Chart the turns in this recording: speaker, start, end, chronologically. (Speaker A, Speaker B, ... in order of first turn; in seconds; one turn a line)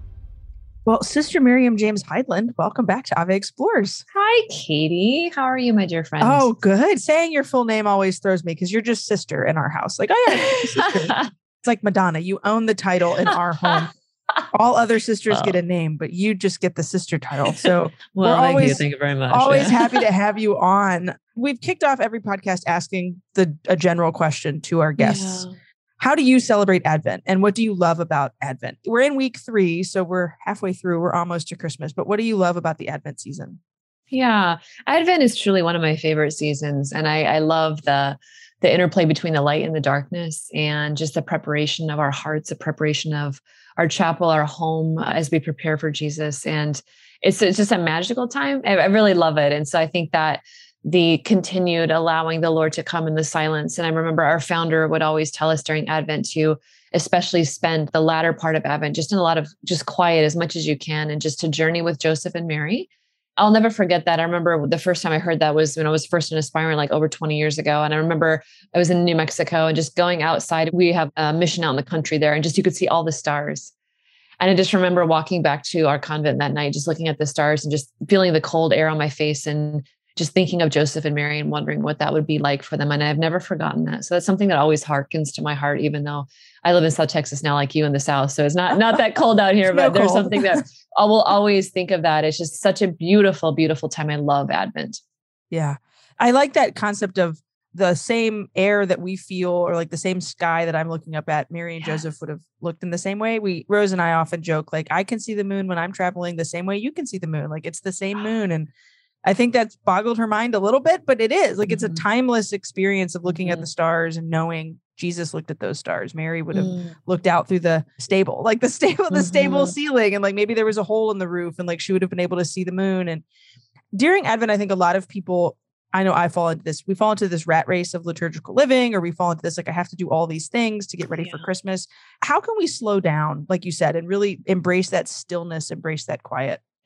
Speaker A: 0.9-4.0
Speaker B: 4.2-6.5
Speaker A: 6.2-13.9
Speaker B: 10.8-11.2
Speaker A: 14.5-25.4
Speaker B: 15.3-15.6
Speaker B: 17.5-20.0
Speaker B: 25.0-25.6
Speaker A: 26.0-33.6
Speaker B: 34.1-73.7
Speaker B: 74.4-95.0
Speaker A: 89.7-90.6
Speaker A: 95.5-108.7
Speaker A: 109.2-123.2
Speaker B: 113.3-113.7
Speaker B: 119.1-119.8
Speaker A: 123.9-136.6
Speaker B: 131.1-131.5